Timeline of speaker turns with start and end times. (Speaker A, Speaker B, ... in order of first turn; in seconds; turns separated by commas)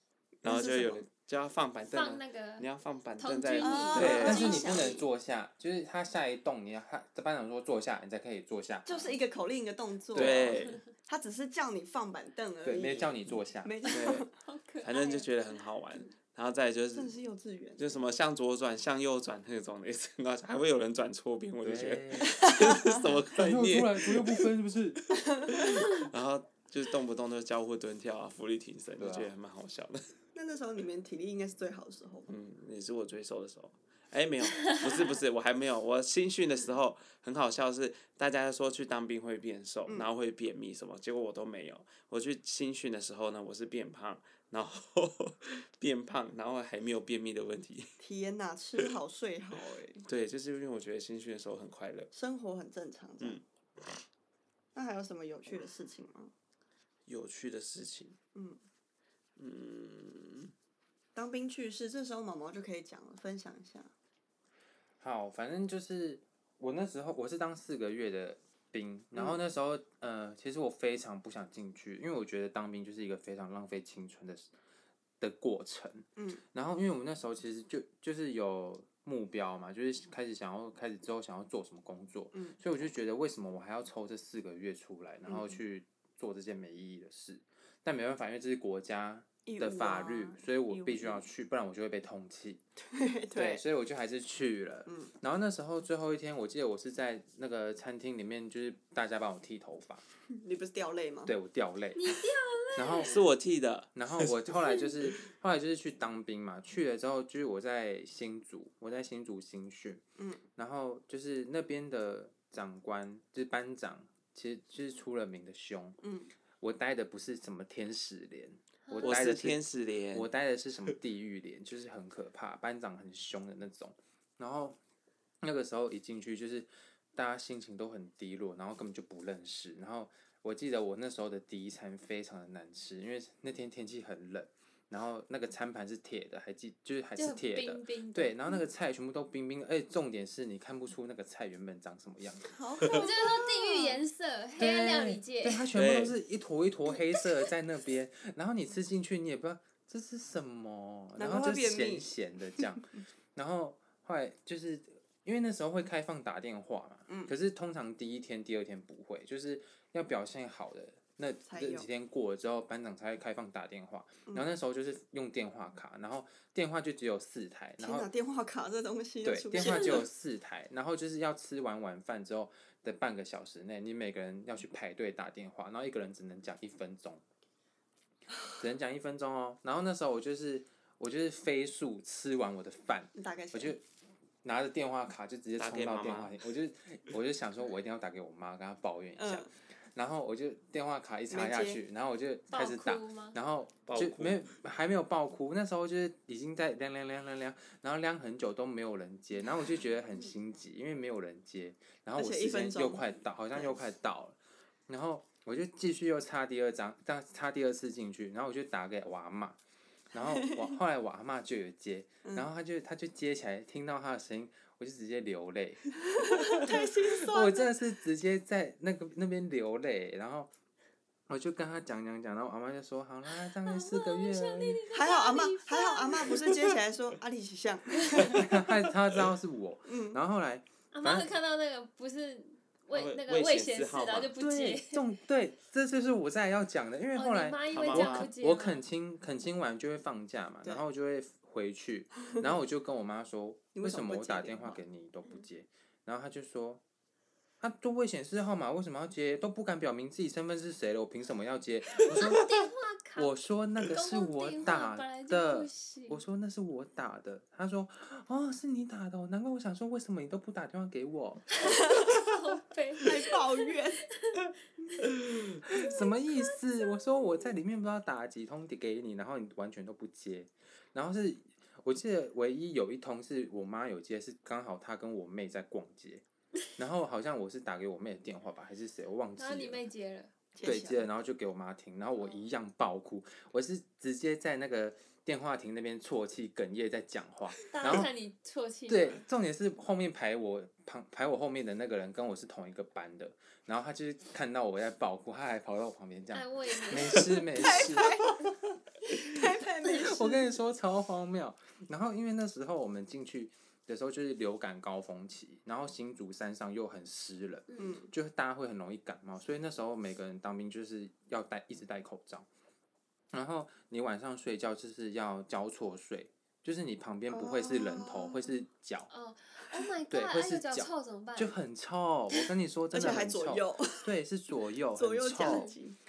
Speaker A: 0.4-4.6, Speaker B: 0.4-1.0, Speaker C: 1.9-5.0, Speaker B: 3.6-5.0, Speaker D: 3.9-9.2, Speaker B: 8.8-14.3, Speaker D: 10.1-10.6, Speaker A: 10.1-10.8, Speaker D: 12.6-13.7, Speaker C: 13.9-15.3, Speaker A: 13.9-14.2, Speaker A: 14.8-17.1, Speaker B: 16.9-18.0, Speaker A: 17.8-24.4, Speaker D: 21.6-22.4, Speaker B: 22.2-23.1, Speaker D: 23.3-25.2, Speaker B: 25.1-26.0, Speaker A: 25.5-30.1, Speaker D: 29.0-29.3, Speaker B: 30.3-32.3, Speaker A: 32.3-48.0, Speaker C: 34.5-35.0, Speaker B: 48.0-50.0, Speaker A: 50.0-52.1, Speaker B: 52.1-53.4, Speaker B: 54.7-56.3, Speaker A: 57.1-58.2, Speaker B: 58.3-58.6, Speaker A: 59.4-60.5, Speaker B: 61.1-63.9, Speaker D: 65.0-74.5, Speaker D: 75.2-92.6, Speaker B: 76.2-76.4, Speaker B: 85.2-85.6, Speaker B: 89.5-91.2, Speaker B: 92.8-93.6, Speaker D: 93.3-100.0, Speaker B: 94.8-95.1, Speaker B: 100.3-101.3, Speaker D: 101.2-103.2, Speaker C: 101.9-103.3, Speaker A: 103.0-104.5, Speaker D: 103.9-110.0, Speaker B: 110.2-110.4, Speaker D: 110.5-116.0, Speaker B: 116.0-116.3, Speaker D: 116.6-124.8, Speaker C: 118.9-119.2, Speaker A: 119.0-120.3, Speaker D: 125.4-142.5, Speaker C: 137.2-138.6, Speaker B: 142.5-144.0, Speaker C: 142.9-145.7, Speaker D: 144.6-168.1, Speaker A: 145.7-146.2, Speaker C: 146.9-147.4, Speaker B: 151.2-152.1, Speaker B: 161.4-161.9, Speaker B: 167.8-170.0, Speaker D: 169.2-177.2, Speaker C: 169.6-170.0, Speaker D: 178.6-183.8, Speaker B: 183.1-183.8, Speaker D: 184.4-209.6, Speaker A: 185.6-186.4, Speaker B: 189.2-189.5, Speaker B: 191.3-191.8, Speaker C: 192.5-193.4, Speaker A: 193.9-194.4, Speaker B: 202.2-203.8, Speaker D: 210.1-220.5, Speaker B: 210.1-210.8, Speaker B: 212.2-212.5, Speaker B: 216.1-217.8, Speaker D: 221.3-224.8, Speaker C: 223.6-226.8, Speaker B: 224.9-228.5, Speaker C: 228.1-228.4, Speaker A: 228.2-228.7, Speaker D: 228.3-231.3, Speaker B: 229.8-230.2, Speaker C: 230.9-235.1, Speaker A: 232.9-234.3, Speaker D: 234.4-246.8, Speaker C: 237.1-238.8, Speaker A: 237.7-238.3, Speaker B: 243.7-244.8, Speaker D: 247.6-261.7, Speaker C: 252.0-256.2, Speaker B: 261.6-262.1, Speaker C: 261.7-263.4, Speaker B: 263.0-264.0, Speaker C: 264.2-264.5, Speaker D: 265.6-276.2, Speaker C: 265.7-266.5, Speaker D: 276.8-279.9, Speaker C: 279.4-280.3, Speaker B: 280.5-281.1, Speaker D: 280.6-288.1, Speaker C: 287.7-289.2, Speaker D: 288.9-298.6, Speaker C: 296.3-297.9, Speaker B: 297.5-298.4, Speaker B: 299.1-300.5, Speaker D: 299.8-312.5, Speaker C: 307.7-307.9, Speaker B: 307.8-308.1, Speaker D: 313.3-319.1, Speaker B: 317.3-318.6, Speaker C: 319.1-321.6, Speaker D: 320.1-325.7, Speaker B: 322.9-324.1, Speaker B: 324.9-326.0, Speaker C: 325.4-325.7